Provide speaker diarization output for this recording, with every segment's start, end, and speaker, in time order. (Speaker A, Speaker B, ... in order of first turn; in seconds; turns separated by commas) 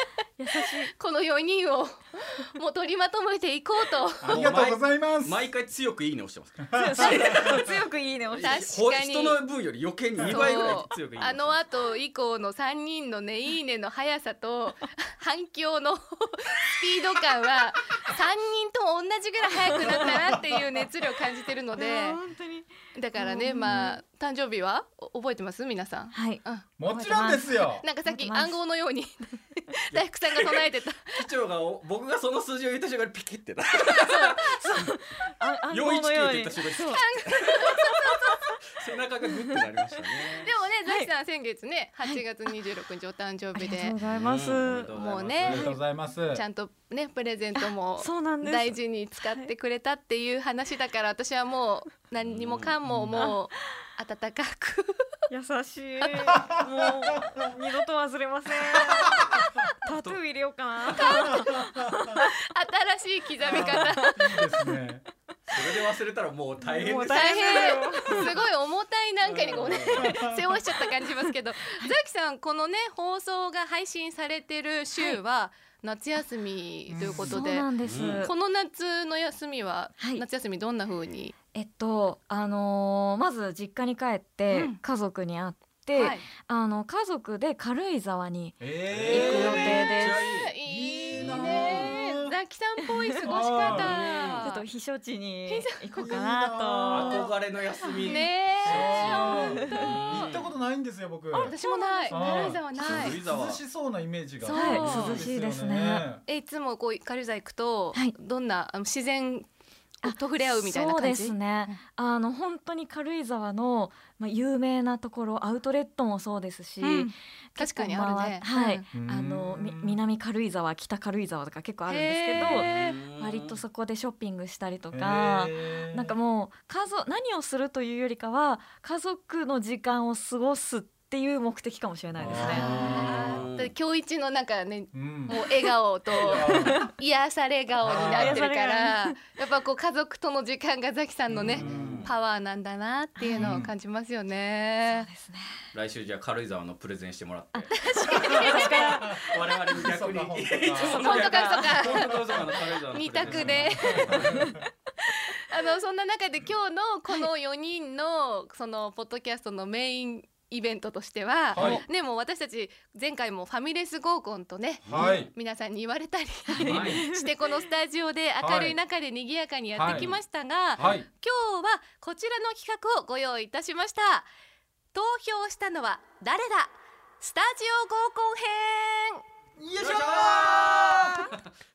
Speaker A: 0.4-0.9, Speaker B: 0.5-4.4, Speaker C: 4.2-5.5, Speaker D: 4.3-7.8, Speaker C: 6.7-7.5, Speaker A: 6.8-8.6, Speaker D: 8.3-11.6, Speaker B: 8.4-9.4, Speaker C: 10.2-10.8, Speaker B: 10.2-22.2, Speaker A: 19.9-20.1, Speaker A: 21.8-24.0, Speaker B: 22.9-31.1, Speaker A: 26.1-26.4, Speaker C: 26.8-27.8, Speaker A: 27.0-27.5, Speaker A: 28.0-28.6, Speaker D: 29.9-34.8, Speaker A: 34.1-37.0, Speaker D: 35.7-37.9, Speaker B: 36.9-38.5, Speaker D: 38.7-40.5, Speaker B: 40.4-44.0, Speaker A: 40.9-41.1, Speaker A: 42.0-42.5, Speaker A: 43.5-44.9, Speaker D: 44.0-45.7, Speaker B: 45.0-45.8, Speaker C: 45.4-46.4, Speaker B: 46.3-55.1, Speaker A: 48.0-49.5, Speaker D: 52.2-52.8, Speaker C: 52.9-53.3, Speaker A: 55.3-62.3, Speaker B: 59.0-59.6, Speaker D: 59.9-60.2, Speaker B: 60.9-64.4, Speaker C: 61.4-62.0, Speaker C: 63.5-65.0, Speaker A: 63.5-64.2, Speaker D: 65.5-67.8, Speaker A: 66.6-68.3, Speaker B: 67.1-77.7, Speaker D: 69.2-70.2, Speaker C: 70.0-70.5, Speaker C: 76.9-77.4, Speaker A: 77.0-78.3, Speaker D: 77.8-78.3, Speaker B: 78.2-81.3, Speaker A: 80.0-80.2, Speaker A: 81.5-90.3, Speaker B: 84.5-84.8, Speaker B: 85.9-86.3, Speaker C: 88.6-89.8, Speaker D: 88.9-90.5, Speaker B: 90.0-94.7, Speaker C: 90.6-92.3, Speaker D: 91.1-92.0, Speaker A: 92.9-93.8, Speaker C: 93.2-94.0, Speaker D: 93.8-94.6, Speaker A: 94.4-97.2, Speaker B: 95.5-96.2, Speaker C: 95.9-97.3, Speaker D: 96.9-100.5, Speaker A: 97.9-98.2, Speaker B: 98.0-99.6, Speaker C: 98.7-101.5, Speaker A: 99.2-99.9, Speaker A: 101.3-102.2, Speaker B: 101.4-103.2, Speaker C: 102.1-106.2, Speaker D: 102.8-103.6, Speaker B: 104.4-105.2, Speaker A: 104.5-106.1, Speaker B: 106.2-109.5, Speaker B: 110.0-111.8, Speaker A: 110.0-133.0, Speaker B: 116.8-118.9, Speaker C: 118.9-120.0, Speaker B: 121.9-123.0, Speaker D: 122.4-123.6, Speaker C: 124.9-126.2, Speaker C: 132.2-133.5, Speaker D: 132.3-133.7, Speaker B: 132.4-145.1, Speaker C: 134.9-135.3, Speaker C: 136.2-136.9, Speaker C: 137.8-138.4, Speaker A: 137.9-139.2, Speaker C: 141.3-142.1, Speaker D: 141.5-142.1, Speaker A: 143.2-143.6, Speaker C: 143.4-143.7, Speaker A: 144.9-145.6, Speaker D: 145.7-154.4, Speaker A: 147.5-149.2, Speaker B: 147.7-149.1, Speaker C: 148.3-149.2, Speaker C: 149.7-151.1, Speaker B: 151.0-154.4, Speaker A: 151.0-151.8, Speaker C: 151.8-152.3, Speaker C: 153.2-154.6, Speaker A: 154.3-154.5, Speaker B: 155.1-174.3, Speaker C: 161.5-161.8, Speaker D: 161.5-161.8, Speaker D: 164.8-165.3, Speaker C: 164.9-165.3, Speaker A: 166.5-167.2, Speaker D: 166.6-167.1, Speaker C: 168.4-168.8, Speaker C: 169.7-170.2, Speaker D: 169.8-170.2, Speaker D: 170.8-171.0, Speaker C: 170.8-171.1, Speaker B: 174.9-179.2, Speaker C: 179.6-181.3, Speaker D: 179.8-181.4